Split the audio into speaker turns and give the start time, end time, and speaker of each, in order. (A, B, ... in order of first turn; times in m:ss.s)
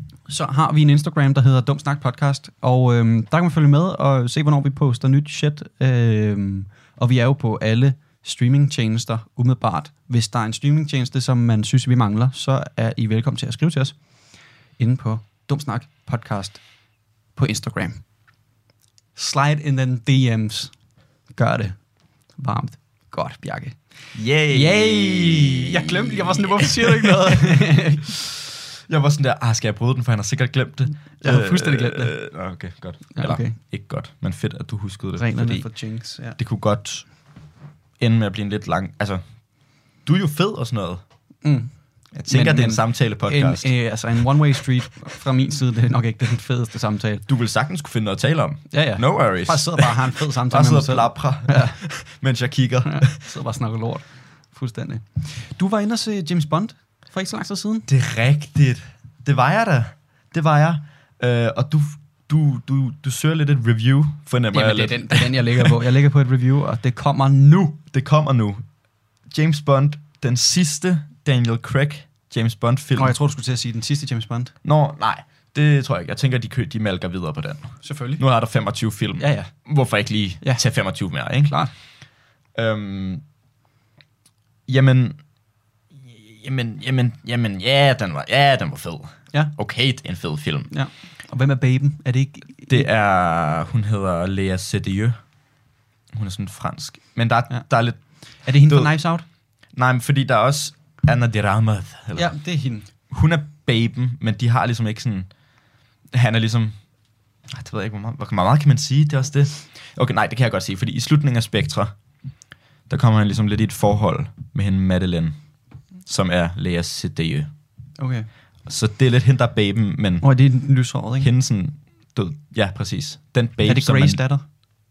0:00.3-0:18.4 A
0:19.2-0:28.1 A
0:24.1-0:41.3 B
0:31.0-0:33.6 A
0:35.2-0:36.4 A
0:41.4-0:47.2 A
0:42.1-0:44.9 B
0:47.3-0:53.4 B
0:48.7-0:51.8 A
0:52.8-0:57.9 A
0:57.9-1:05.8 B
1:04.5-1:07.8 A
1:07.8-1:13.2 B
1:13.0-1:14.6 A
1:14.6-1:23.3 B
1:17.8-1:18.2 A
1:19.2-1:19.9 A
1:20.4-1:21.8 A
1:24.7-1:30.7 B
1:29.3-1:29.6 A
1:30.7-1:32.9 A
1:32.6-1:57.5 B
1:37.5-1:39.3 A
1:42.2-1:43.0 A
1:58.0-1:58.3 A
1:58.6-2:04.4 B
2:00.2-2:01.3 A
2:03.6-2:04.5 A